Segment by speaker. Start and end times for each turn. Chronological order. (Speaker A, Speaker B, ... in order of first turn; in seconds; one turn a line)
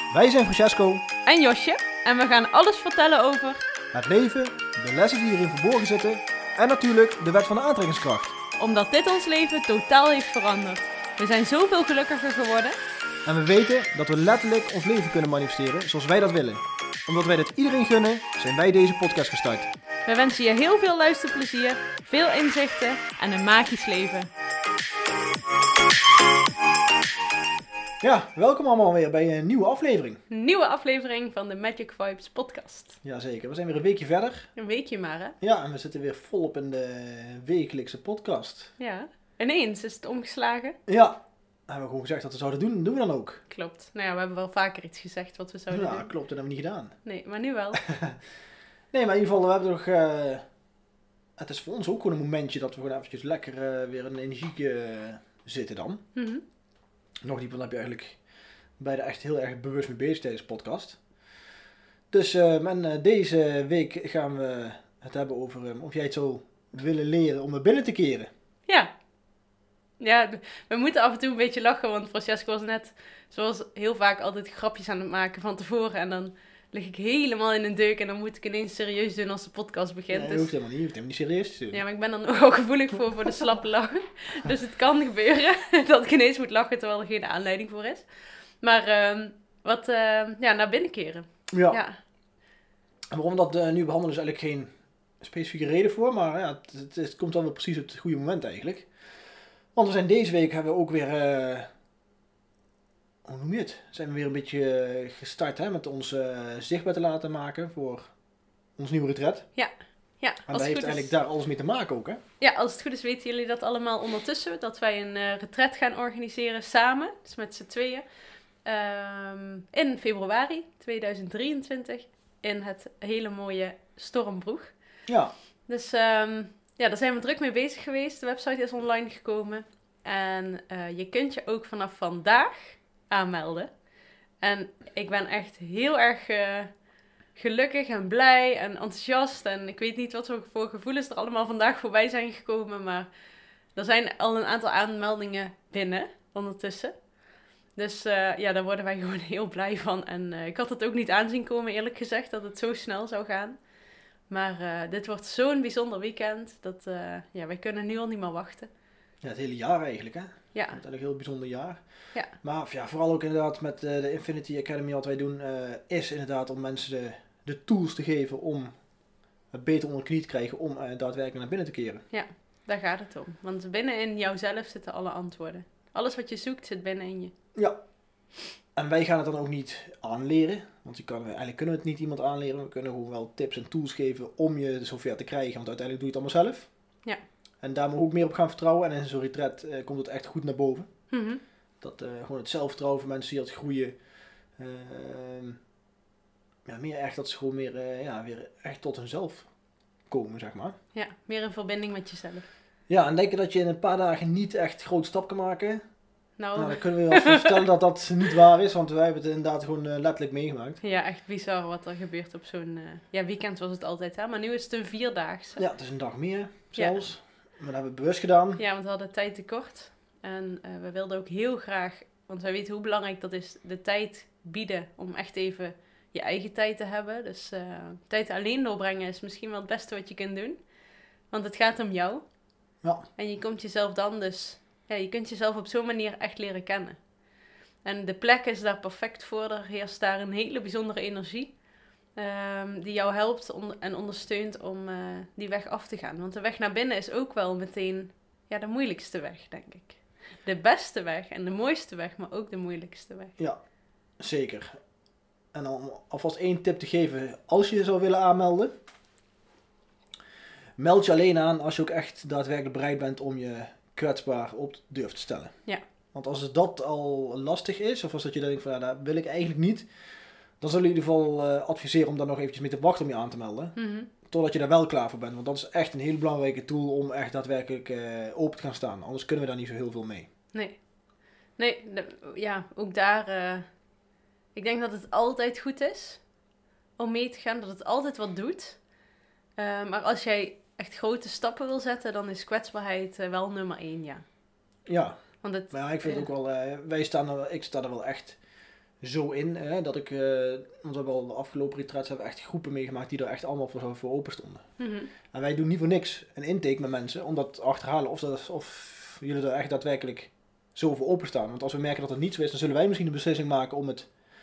Speaker A: 0.1-1.0
Speaker B: 1.2-3.6
Speaker A: 3.9-8.4
Speaker B: 8.6-12.8
Speaker A: 13.2-19.7
Speaker B: 20.1-24.3
Speaker A: 28.0-30.2
Speaker B: 30.3-33.0
Speaker A: 33.0-34.5
Speaker B: 34.5-35.4
Speaker A: 35.4-38.7
Speaker B: 38.8-40.8
Speaker A: 40.9-43.4
Speaker B: 43.5-46.1
Speaker A: 45.7-46.9
Speaker B: 47.0-47.8
Speaker A: 47.7-48.2
Speaker A: 48.9-50.4
Speaker A: 51.4-56.0
Speaker B: 56.1-56.4
Speaker A: 57.2-58.2
Speaker A: 58.8-61.0
Speaker A: 62.1-68.3
Speaker B: 70.0-80.5
Speaker A: 80.1-81.8
Speaker B: 81.7-88.0
Speaker B: 88.6-91.9
Speaker A: 91.5-91.8
Speaker A: 93.1-94.7
Speaker A: 95.2-98.9
Speaker A: 99.7-101.7
Speaker A: 103.2-108.1
Speaker A: 108.8-109.5
Speaker B: 109.5-111.1
Speaker A: 110.5-112.2
Speaker B: 112.4-118.0
Speaker B: 118.6-124.7
Speaker A: 125.1-125.3
Speaker B: 125.7-133.7
Speaker B: 134.4-136.7
Speaker B: 137.3-143.1
Speaker B: 143.7-146.9
Speaker B: 147.8-153.6
Speaker B: 154.3-158.7
Speaker A: 159.2-168.7
Speaker B: 160.5-160.8
Speaker A: 169.5-172.0
Speaker B: 172.1-177.3
Speaker A: 178.8-186.7
Speaker A: 187.6-190.9
Speaker B: 191.1-191.4
Speaker A: 191.8-194.0
Speaker A: 194.6-195.6
Speaker A: 196.7-199.5
Speaker A: 200.1-200.8
Speaker B: 200.9-202.4
Speaker A: 202.9-205.8
Speaker B: 206.4-207.6
Speaker A: 206.6-210.8
Speaker B: 210.8-215.6
Speaker A: 215.6-218.6
Speaker B: 218.6-230.6
Speaker B: 231.3-232.2
Speaker A: 232.8-233.1
Speaker B: 233.2-237.0
Speaker B: 237.8-241.6
Speaker B: 242.2-253.3
Speaker A: 254.2-254.8
Speaker A: 255.5-258.7
Speaker A: 260.8-265.6
Speaker A: 266.1-269.9
Speaker A: 270.6-280.3
Speaker B: 273.8-274.1
Speaker B: 280.5-280.8
Speaker B: 281.6-283.7
Speaker B: 284.5-286.2
Speaker B: 287.0-288.8
Speaker B: 289.6-294.2
Speaker A: 294.9-295.2
Speaker B: 295.4-296.2
Speaker A: 295.7-298.4
Speaker A: 299.0-304.6
Speaker B: 304.8-305.1
Speaker A: 305.3-314.1